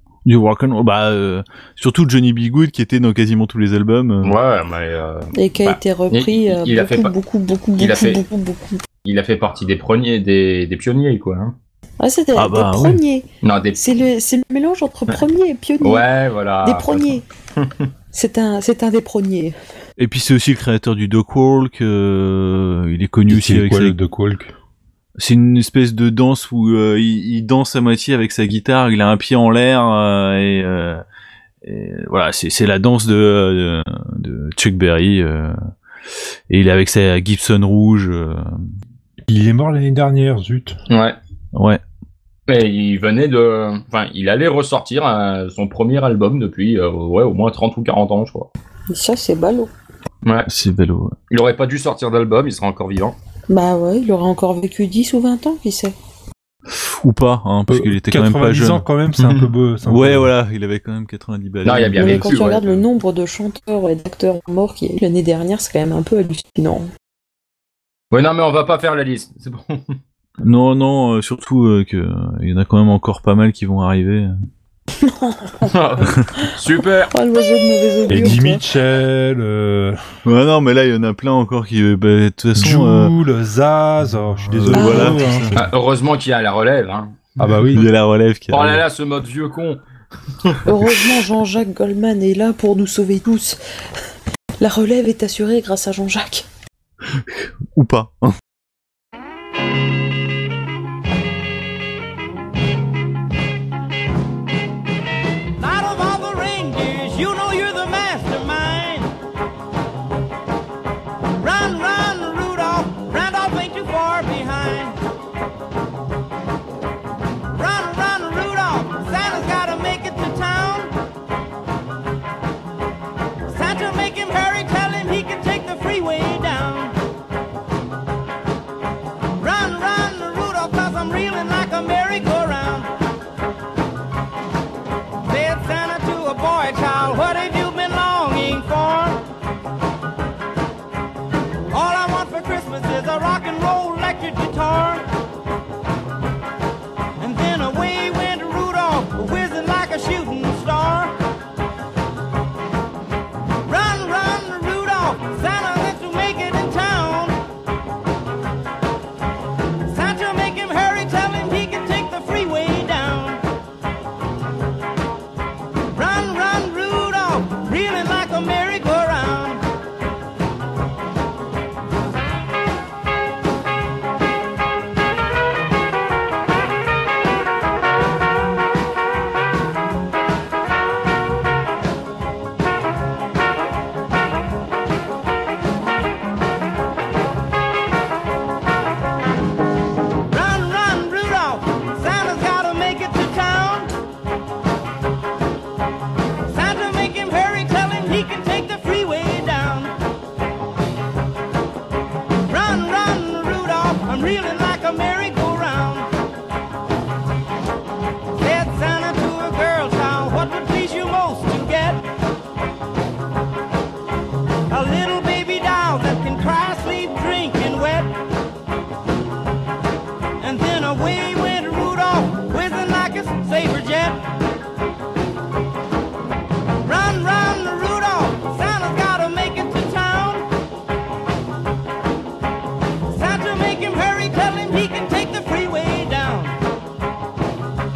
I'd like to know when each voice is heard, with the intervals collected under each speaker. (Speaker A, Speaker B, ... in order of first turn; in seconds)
Speaker A: 0.2-4.3, 12.3-13.0, 20.0-23.9, 25.2-31.0, 31.6-35.5, 36.5-38.4, 41.5-41.8, 50.5-51.1, 57.0-58.9, 59.8-62.3, 70.4-74.3, 80.2-83.1, 84.5-85.6, 87.7-88.8, 97.1-98.3
Speaker B: 4.2-7.1, 7.8-8.2, 9.0-11.5, 13.4-13.8, 15.8-17.9, 40.9-41.2, 42.5-48.5, 50.2-50.5, 51.3-53.2, 59.2-59.5, 61.6-62.8, 68.1-70.0, 75.7-77.1, 85.5-87.2, 88.5-89.8, 90.5-91.1
Speaker C: 5.4-8.9, 12.0-16.1, 16.6-17.2, 18.1-19.5, 48.9-49.7, 53.5-55.9, 62.0-66.9, 75.0-75.7, 76.2-78.6, 84.7-85.2, 90.7-93.6, 94.6-96.4
Speaker D: 23.3-24.5, 39.3-40.7, 57.7-60.3, 78.1-80.0, 82.5-85.7, 87.4-87.9
Speaker E: 105.6-109.1, 111.4-115.0, 117.5-120.9, 123.5-127.0, 129.4-132.9, 135.2-139.2, 141.7-145.1, 147.2-151.1, 153.6-157.4, 159.9-163.4, 165.9-169.7, 190.3-193.9, 196.5-199.9, 202.4-206.1, 208.3-212.1, 214.7-218.2, 220.4-224.2, 226.8-230.5, 233.1-236.6